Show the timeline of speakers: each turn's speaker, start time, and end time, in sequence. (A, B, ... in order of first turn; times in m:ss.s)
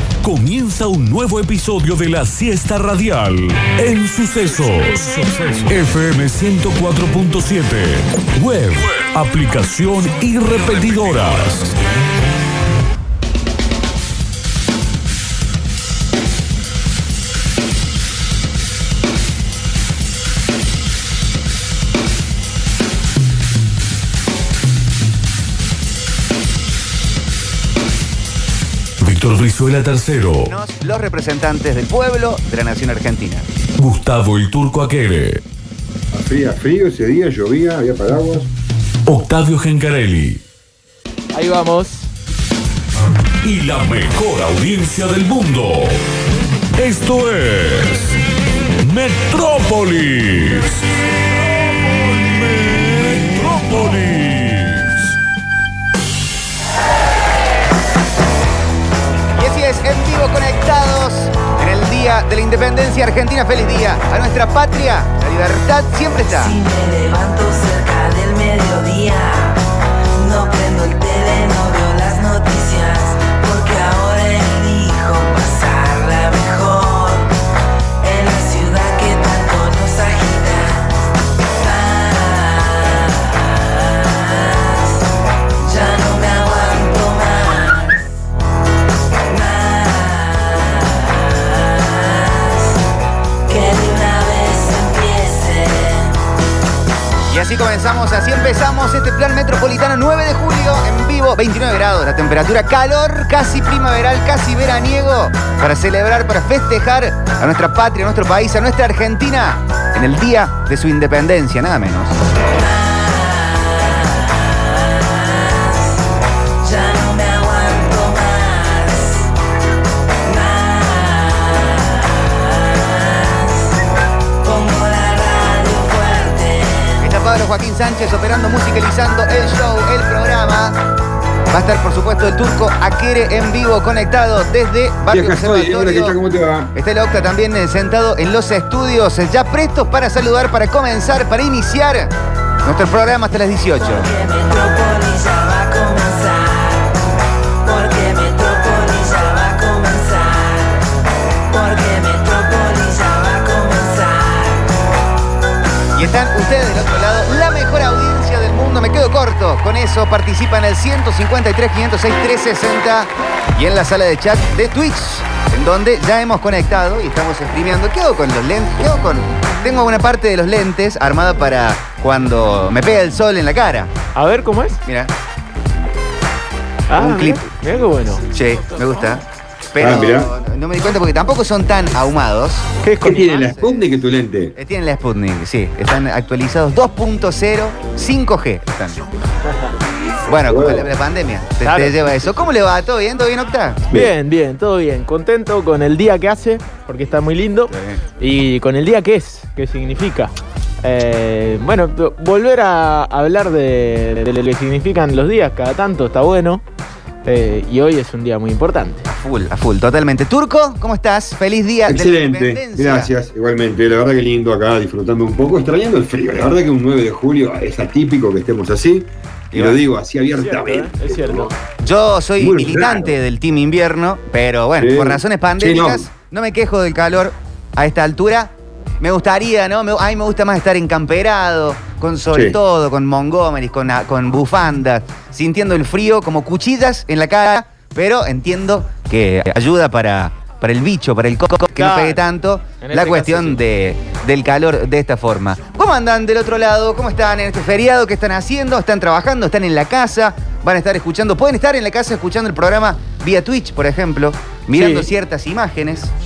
0:00.2-0:11.8 A
0:29.0-0:30.5 A
0:30.5-0:33.5 B
0:33.8-0:35.4 A
0:36.1-0:38.5 C
0:39.1-0:40.4 A
0:41.3-0:42.1 D
0:43.4-0:46.0 A
0:46.8-0:48.2 A
0:48.8-0:50.8 A
0:52.0-0:55.1 A
0:59.4-1:06.5 B
1:06.3-1:09.6 E
1:10.2-1:17.3 E
1:18.0-1:21.0 E
1:21.6-1:25.1 E
1:25.6-1:28.0 E
1:29.3-1:32.8 E
1:33.5-1:36.2 E
1:37.3-1:52.2 B
1:52.5-1:56.0 E
1:56.6-1:59.3 E
2:00.2-2:03.8 E
2:04.4-2:07.1 E
2:07.0-2:10.8 B
2:11.5-2:16.2 B
2:15.1-2:16.7 C
2:16.7-2:22.1 B
2:22.6-2:24.1 B
2:23.8-2:27.0 E
2:27.6-2:30.8 E
2:31.5-2:34.7 E
2:36.0-2:53.9 B
2:54.2-2:54.8 D
2:54.8-2:55.1 B
2:56.9-2:58.2 D
2:57.0-2:57.4 B
2:58.3-3:03.8 B
2:59.8-3:00.3 C
3:02.8-3:03.3 D
3:03.0-3:04.6 C
3:04.6-3:09.1 B
3:10.3-3:13.9 B
3:10.5-3:10.9 C
3:11.6-3:12.4 D
3:13.9-3:20.3 D
3:17.7-3:18.0 B
3:20.8-3:26.6 D
3:27.2-3:29.0 D
3:29.1-3:33.1 B
3:31.9-3:41.5 C
3:39.5-3:39.8 B
3:40.4-3:41.5 D
3:41.8-4:16.1 B
3:42.4-3:43.2 C
3:44.8-3:46.1 C
3:52.3-3:52.6 C
4:01.8-4:02.2 D
4:02.8-4:03.6 D